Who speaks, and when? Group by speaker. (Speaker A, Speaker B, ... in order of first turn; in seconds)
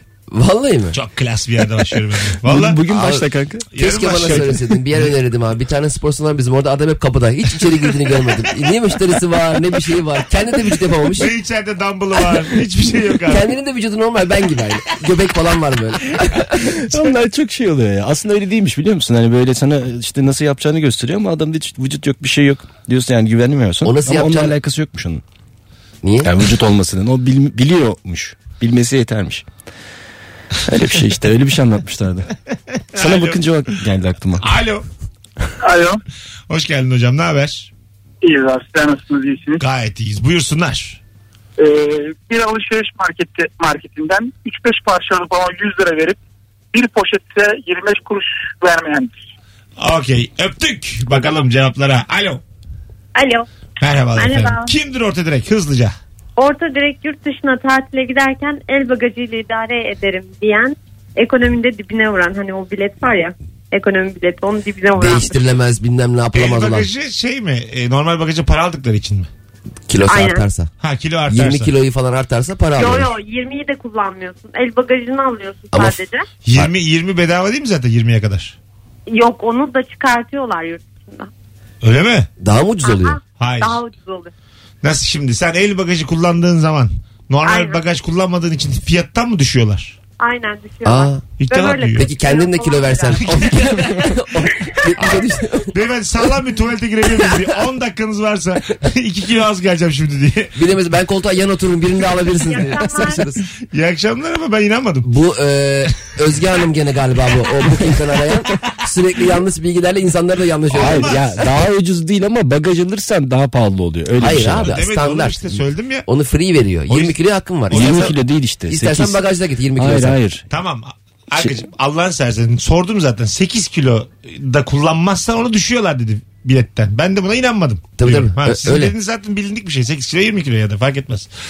Speaker A: 0.3-1.0, 2.9-11.3, 13.3-16.7, 23.8-24.6, 26.0-26.3, 64.9-66.9, 69.9-70.7, 71.3-73.1, 75.7-76.0, 82.4-83.2, 90.8-91.3, 91.9-95.7, 100.5-103.4, 105.0-111.5, 114.2-118.2, 118.7-120.2, 128.0-128.9
Speaker B: 0.9-2.8, 3.7-4.5, 11.1-13.5, 32.9-33.5, 34.4-34.8, 36.5-37.7, 39.6-41.0, 49.8-52.4, 53.8-56.0, 66.3-69.3, 70.8-71.7, 76.4-78.5, 81.8-82.3, 83.4-83.8, 84.8-90.0, 91.4-92.1, 93.2-94.2, 95.0-100.5, 103.7-105.1, 110.7-111.4, 114.6-116.0, 116.9-117.2, 117.7-118.2, 120.5-131.3
Speaker C: 2.4-4.6, 16.9-25.2, 26.2-29.4, 30.7-32.3, 33.0-34.5, 110.7-114.7, 117.7-119.2, 119.8-120.4
Speaker D: 35.6-36.0, 38.2-39.6, 41.6-46.2, 46.7-49.1
Speaker E: 53.1-53.5, 54.1-54.7, 56.4-65.5, 70.0-70.5, 72.8-76.2, 79.1-81.3, 82.8-84.3, 87.4-87.8, 90.2-93.4, 102.4-103.3